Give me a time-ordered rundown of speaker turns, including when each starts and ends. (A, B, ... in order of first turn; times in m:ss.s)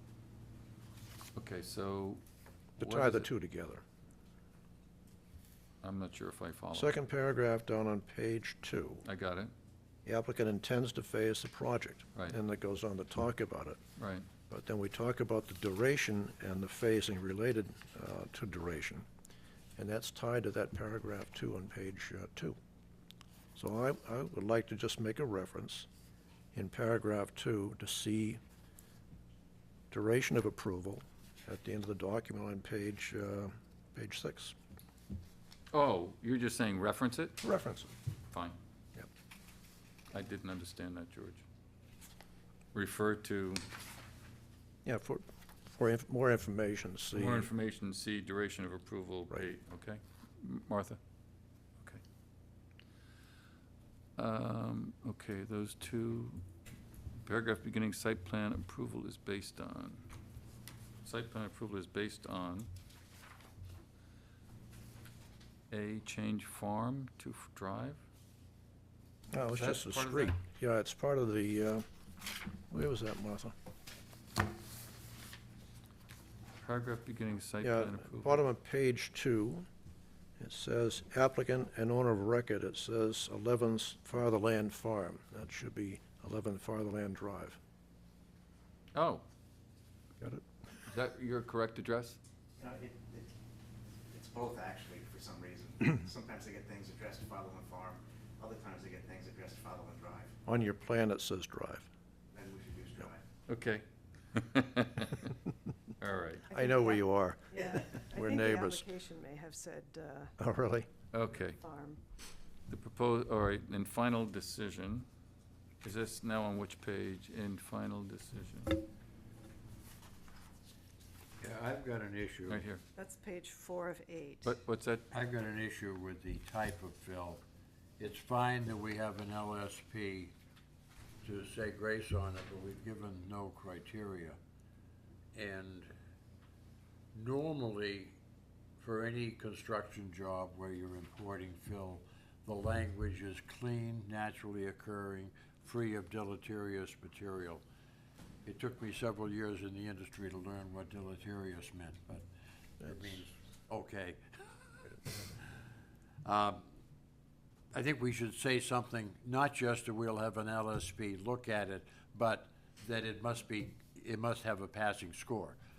0:01.4-0:02.2 A
0:02.8-0:03.3 A
0:02.8-0:03.8 B
0:05.8-0:06.9 A
0:06.7-0:09.0 B
0:09.0-0:09.5 A
0:10.1-0:13.8 B
0:14.0-0:14.3 A
0:14.5-0:19.1 B
0:19.8-0:22.6 B
0:23.6-0:25.9 B
0:26.5-0:28.4 B
0:29.9-0:34.6 B
0:35.7-0:37.4 A
0:37.4-0:37.9 B
0:38.3-0:38.6 A
0:40.1-0:41.4 A
0:42.7-0:43.6 A
0:44.8-0:47.5 B
0:47.1-0:51.0 A
0:54.2-0:56.4 A
0:57.2-1:00.1 A
1:01.0-1:02.7 A
1:05.7-1:08.0 A
1:09.3-1:11.8 B
1:09.6-1:10.3 C
1:12.7-1:13.5 B
1:16.6-1:18.4 A
1:17.6-1:19.7 B
1:20.4-1:27.6 B
1:28.9-1:29.2 A
1:30.9-1:32.2 A
1:32.6-1:33.2 D
1:34.1-1:40.3 D
1:40.5-1:41.9 B
1:42.4-1:43.2 D
1:43.5-1:45.3 A
1:46.0-1:46.4 A
1:46.5-1:50.4 E
1:46.5-1:48.9 B
1:50.4-1:50.9 B
1:51.1-1:51.6 A
1:51.5-1:52.0 E
1:52.7-1:55.1 A
1:55.8-1:58.8 A
2:01.4-2:02.7 C
2:02.5-2:02.8 A
2:03.0-2:04.5 E
2:04.4-2:05.1 A
2:05.1-2:07.4 C
2:08.0-2:10.3 C
2:11.2-2:14.4 C
2:15.4-2:15.9 C
2:17.1-2:18.2 C
2:18.8-2:27.6 C
2:28.4-2:32.3 C
2:32.8-2:34.8 C
2:36.2-2:36.6 C
2:37.7-2:45.6 C